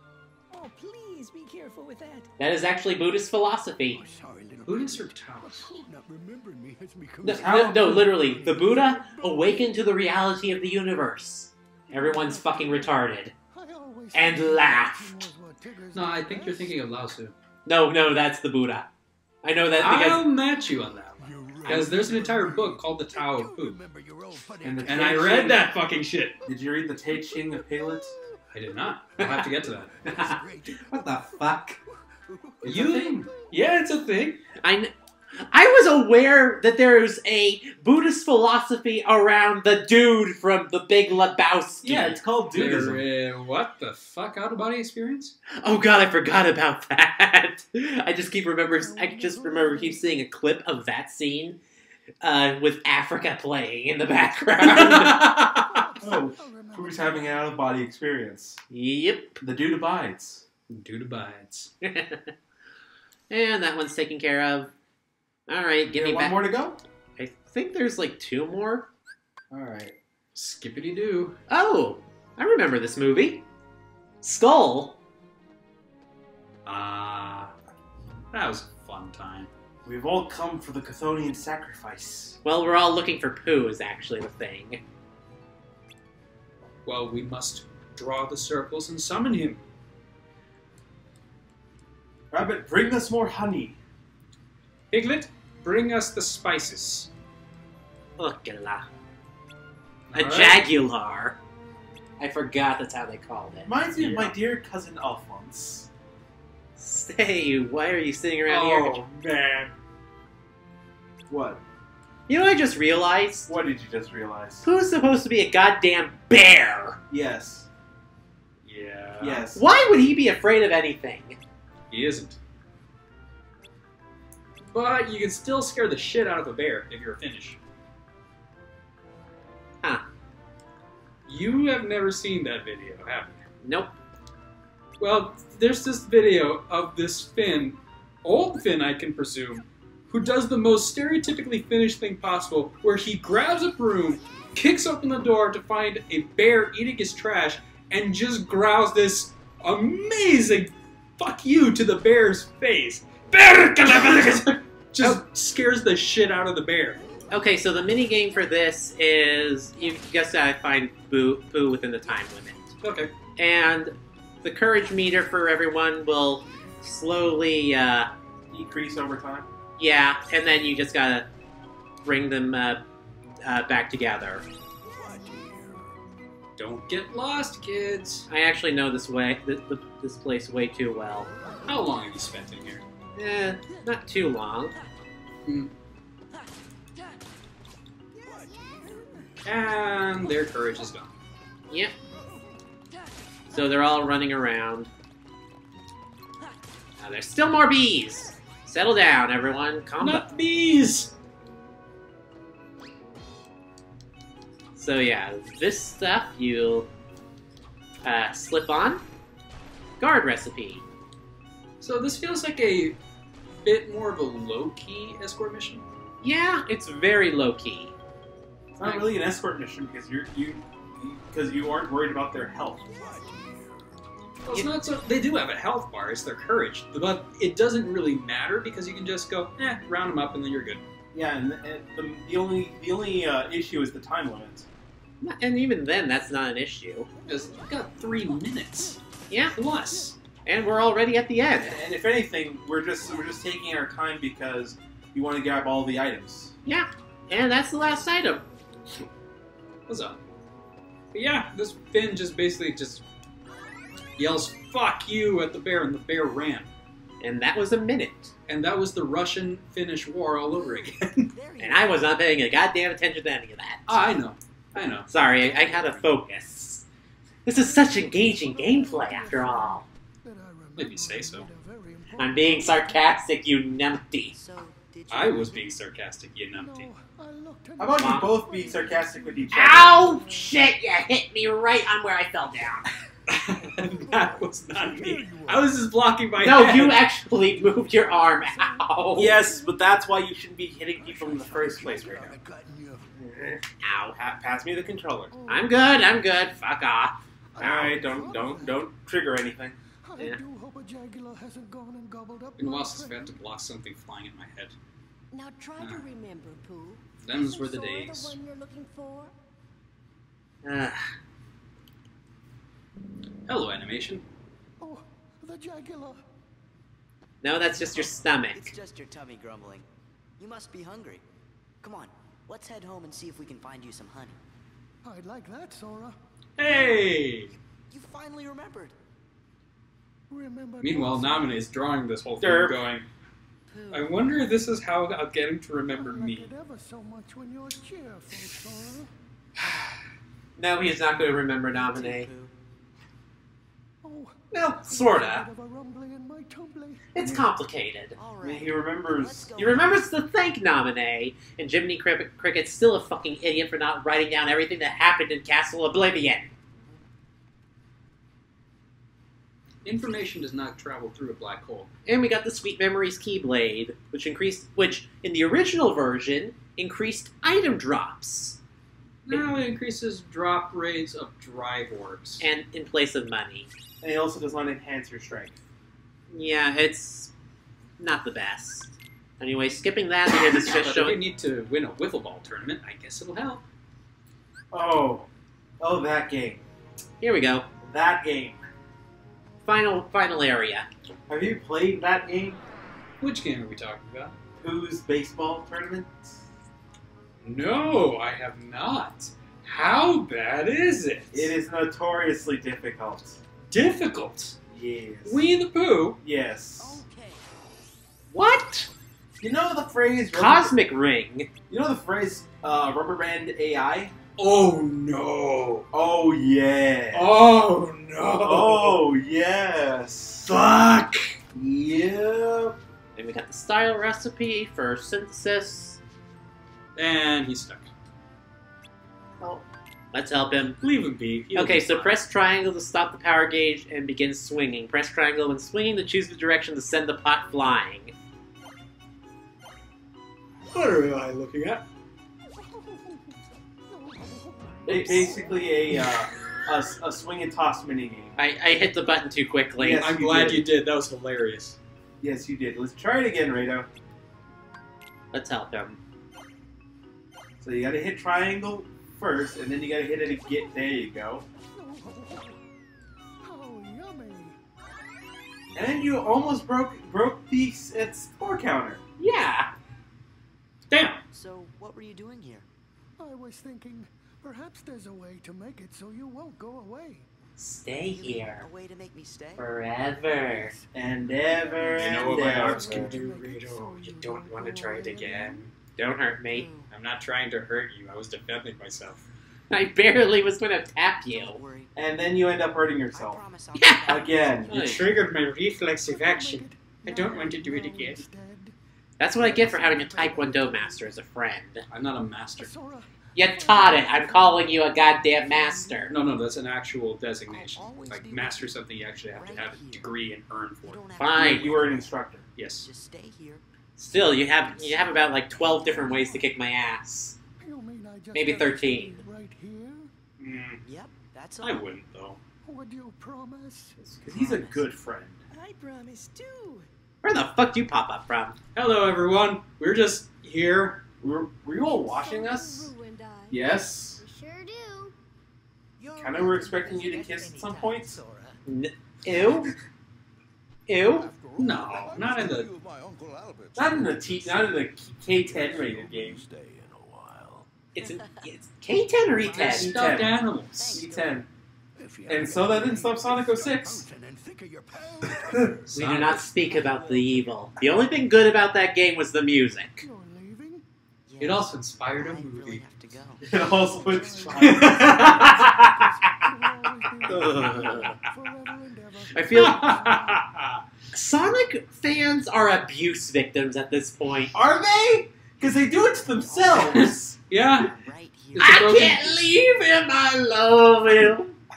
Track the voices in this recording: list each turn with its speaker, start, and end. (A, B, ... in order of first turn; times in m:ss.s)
0:00.5-0:02.3 A
0:02.4-0:04.0 B
0:03.9-0:09.5 C
0:04.7-0:05.7 D
0:07.2-0:13.4 B
0:07.2-0:08.2 E
0:11.9-0:13.0 C
0:13.5-0:17.0 C
0:14.1-0:15.3 B
0:15.9-0:17.4 D
0:17.7-0:18.9 B
0:19.4-0:20.2 B
0:19.8-0:23.8 D
0:21.2-0:25.2 C
0:24.6-0:25.6 E
0:24.9-0:26.4 D
0:26.5-0:28.2 E
0:27.2-0:28.3 C
0:28.5-0:29.9 D
0:29.3-0:31.8 C
0:30.0-0:31.8 B
0:32.3-0:33.6 C
0:32.6-0:33.2 E
0:32.6-0:34.4 D
0:34.6-0:34.9 B
0:35.5-0:42.2 B
0:41.8-0:43.0 E
0:42.5-0:45.4 D
0:45.6-0:51.6 B
0:48.7-0:50.1 C
0:52.2-0:55.4 B
0:54.6-0:55.7 D
0:55.6-0:57.4 C
0:56.0-0:58.6 E
0:58.7-0:59.4 B
0:59.4-1:00.5 E
1:00.7-1:01.7 D
1:01.8-1:02.3 B
1:03.3-1:04.7 B
1:05.5-1:06.5 B
1:05.9-1:06.8 E
1:07.2-1:08.9 B
1:09.5-1:10.0 E
1:10.4-1:11.4 D
1:11.5-1:13.4 B
1:14.2-1:15.0 B
1:16.6-1:17.5 D
1:18.3-1:19.5 D
1:19.8-1:22.4 E
1:22.4-1:24.8 B
1:26.8-1:29.6 D
1:32.3-1:33.8 E
1:34.9-1:37.1 D
1:38.2-1:38.9 B
1:40.1-1:40.6 D
1:40.1-1:41.4 B
1:42.2-1:43.7 B
1:43.6-1:45.9 E
1:44.0-1:44.4 D
1:46.8-1:49.0 B
1:48.5-1:49.7 D
1:51.3-1:51.6 E
1:52.3-1:53.5 B
1:53.5-1:54.6 E
1:54.6-1:57.0 B
1:57.1-1:57.7 E
1:58.6-1:59.5 D
1:59.2-1:59.6 E
1:59.6-2:01.4 B
2:01.9-2:02.4 D
2:04.6-2:07.6 D
2:11.3-2:13.4 D
2:13.6-2:13.9 B
2:15.0-2:37.0 D
2:37.3-2:42.8 B
2:42.8-2:43.1 D
2:43.4-2:48.1 B
2:48.5-2:49.5 E
2:49.8-2:51.3 B
2:52.0-2:52.8 B
2:53.4-2:54.4 B
2:55.0-2:55.8 C
2:56.6-2:58.3 D
2:58.3-3:01.3 B
3:01.4-3:01.9 C
3:01.6-3:02.8 D
3:03.2-3:04.8 B
3:05.4-3:05.7 D
3:08.2-3:09.5 C
3:09.4-3:11.2 D
3:12.1-3:12.5 C
3:13.5-3:14.9 B
3:17.0-3:20.3 B
3:20.0-3:21.1 D
3:24.8-3:26.9 B
3:28.0-3:29.0 B
3:30.0-3:30.8 B
3:31.8-3:33.0 D
3:33.5-3:35.8 D
3:36.2-3:38.0 B
3:38.8-3:42.9 E
3:38.8-3:39.1 D
3:43.0-3:43.6 F
3:43.0-3:43.8 C
3:44.4-3:50.8 D
3:51.1-3:54.7 E
3:55.2-3:57.1 B
3:57.3-3:59.0 D
3:57.3-3:57.6 C
3:59.3-3:59.6 B
3:59.5-4:00.2 D
4:00.5-4:01.8 B
4:01.6-4:06.5 E
4:06.7-4:08.4 B
4:09.9-4:10.2 D
4:11.1-4:13.0 D
4:14.2-4:16.7 D
4:17.2-4:18.3 B
4:18.5-4:21.3 D
4:20.5-4:22.2 G
4:21.6-4:24.0 B
4:23.9-4:25.1 D
4:25.0-4:26.9 B
4:25.3-4:26.1 G
4:27.5-4:29.9 B
4:27.6-4:33.1 C
4:30.8-4:31.5 D
4:32.2-4:34.3 B
4:34.3-4:35.7 G
4:35.1-4:36.9 D
4:36.6-4:40.6 C
4:37.8-4:40.1 E
4:38.0-4:38.3 B
4:39.5-4:42.9 B
4:43.3-4:47.0 D
4:43.7-4:45.9 C
4:46.4-4:49.4 B
4:47.6-4:49.9 C
4:49.2-4:52.4 E
4:51.0-4:53.2 C
4:53.2-4:53.6 E
4:53.8-4:54.2 B
4:54.2-4:55.3 E
4:55.3-4:56.4 C
4:55.5-4:57.2 B
4:57.6-4:58.9 C
4:57.6-4:59.8 E
5:00.1-5:03.4 C
5:02.6-5:04.8 D
5:05.3-5:09.3 A
5:05.8-5:06.1 D
5:07.2-5:08.4 D
5:10.6-5:11.1 B
5:13.5-5:14.2 D
5:14.8-5:16.2 C
5:17.4-5:18.6 B
5:17.8-5:19.9 G
5:20.4-5:21.2 G
5:21.8-5:24.4 G
5:25.0-5:26.2 C
5:26.6-5:27.5 D
5:27.5-5:29.0 G
5:30.3-5:31.7 C
5:30.8-5:33.1 D
5:32.4-5:32.8 E
5:33.7-5:34.1 G
5:33.9-5:36.5 D
5:35.9-5:39.1 C
5:40.6-5:42.3 B
5:41.7-5:42.5 G
5:44.0-5:47.1 C
5:44.5-5:45.5 B
5:47.1-5:48.2 B
5:48.2-5:50.0 G
5:48.4-5:49.9 E
5:49.6-5:56.5 B
5:59.8-6:01.9 D
6:02.1-6:08.6 B
6:09.3-6:12.4 D
6:09.3-6:09.6 B
6:12.4-6:13.7 B
6:14.0-6:15.6 E
6:16.3-6:17.3 B
6:18.0-6:21.2 B
6:20.4-6:23.6 D
6:24.7-6:25.3 E
6:25.8-6:26.6 E
6:27.2-6:27.7 B
6:27.8-6:28.6 E
6:29.6-6:30.9 B
6:31.3-6:32.6 E
6:33.2-6:34.4 D
6:34.6-6:36.4 E
6:37.4-6:41.5 D
6:41.3-6:43.4 E
6:43.7-6:44.6 D
6:44.7-6:45.5 E
6:45.3-6:46.2 D
6:46.2-6:47.0 E
6:46.8-6:47.5 G
6:48.3-6:48.9 B
6:49.4-6:50.8 E
6:50.3-6:51.5 B
6:51.7-6:54.2 E
6:54.4-6:55.9 D
6:55.9-6:57.5 E
6:57.1-6:59.0 D
6:58.4-7:00.7 E
7:01.5-7:02.8 E
7:03.2-7:06.0 B
7:07.0-7:07.9 D
7:10.1-7:10.8 B
7:10.8-7:12.2 D
7:11.5-7:18.1 B
7:20.7-7:21.9 D
7:22.8-7:23.2 C
7:23.9-7:25.8 C
7:24.9-7:25.3 B
7:24.9-7:28.4 E
7:28.4-7:30.1 B
7:29.8-7:30.7 E
7:30.0-7:31.8 D
7:32.2-7:33.9 E
7:35.3-7:36.0 B
7:37.6-7:41.4 E
7:41.8-7:42.6 C
7:43.4-7:44.6 C
7:45.8-7:49.0 E
7:49.2-7:49.7 B
7:50.9-7:51.2 D
7:51.3-7:52.7 G
7:53.2-7:57.3 C
7:57.6-7:58.7 B
7:58.1-7:59.7 G
7:59.6-8:00.7 B
8:00.6-8:05.7 C
8:00.9-8:03.2 E
8:01.9-8:05.7 D
8:06.0-8:06.7 B
8:06.5-8:06.9 G
8:06.9-8:09.2 D
8:09.7-8:11.6 B
8:11.3-8:11.9 G
8:12.0-8:13.4 E
8:13.1-8:14.7 G
8:13.8-8:15.0 B
8:14.1-8:15.0 E
8:14.7-8:18.2 D
8:16.0-8:18.8 C
8:19.2-8:21.8 B
8:19.4-8:21.2 C
8:21.9-8:22.7 D
8:22.6-8:26.1 C
8:23.4-8:26.1 B
8:26.1-8:31.0 D
8:27.5-8:30.1 G
8:30.8-8:32.2 G
8:31.2-8:31.7 B
8:31.3-8:32.4 E
8:32.6-8:32.9 D
8:32.8-8:33.6 G
8:34.0-8:37.4 B
8:34.2-8:36.4 G
8:35.9-8:36.4 C
8:37.6-8:40.1 C
8:38.3-8:39.2 B
8:40.4-8:40.8 D
8:40.8-8:41.9 G
8:41.6-8:42.4 D
8:42.6-8:44.0 C
8:44.0-8:45.4 E
8:44.3-8:44.9 G
8:45.5-8:46.9 A
8:47.2-8:48.6 B
8:48.8-8:51.0 D
8:51.2-8:52.9 E
8:51.8-8:55.1 A
8:53.5-8:54.2 E
8:56.0-8:58.6 G
8:56.2-8:58.2 E
8:58.7-8:59.7 B
9:00.9-9:01.3 B
9:01.2-9:03.5 C
9:01.6-9:02.7 D
9:02.0-9:04.9 F
9:03.8-9:06.4 E
9:05.4-9:07.7 F
9:07.9-9:09.9 B
9:08.0-9:08.5 G
9:09.4-9:11.4 G
9:09.5-9:11.1 D
9:09.6-9:11.5 E
9:12.0-9:15.8 C
9:12.3-9:14.1 E
9:15.5-9:15.8 E
9:15.9-9:16.5 D
9:15.9-9:20.1 B
9:16.6-9:17.4 G
9:20.0-9:20.8 C
9:21.3-9:25.0 G
9:21.4-9:22.8 D
9:23.5-9:25.4 E
9:23.6-9:30.5 C
9:24.6-9:25.6 D
9:25.0-9:26.1 B
9:27.3-9:28.1 E
9:27.3-9:28.2 B
9:29.3-9:30.0 B
9:29.6-9:30.8 D
9:31.1-9:34.6 B
9:34.5-9:37.9 E
9:36.2-9:37.1 G
9:37.5-9:37.9 D
9:37.8-9:39.3 G
9:38.6-9:39.3 D
9:38.6-9:41.5 B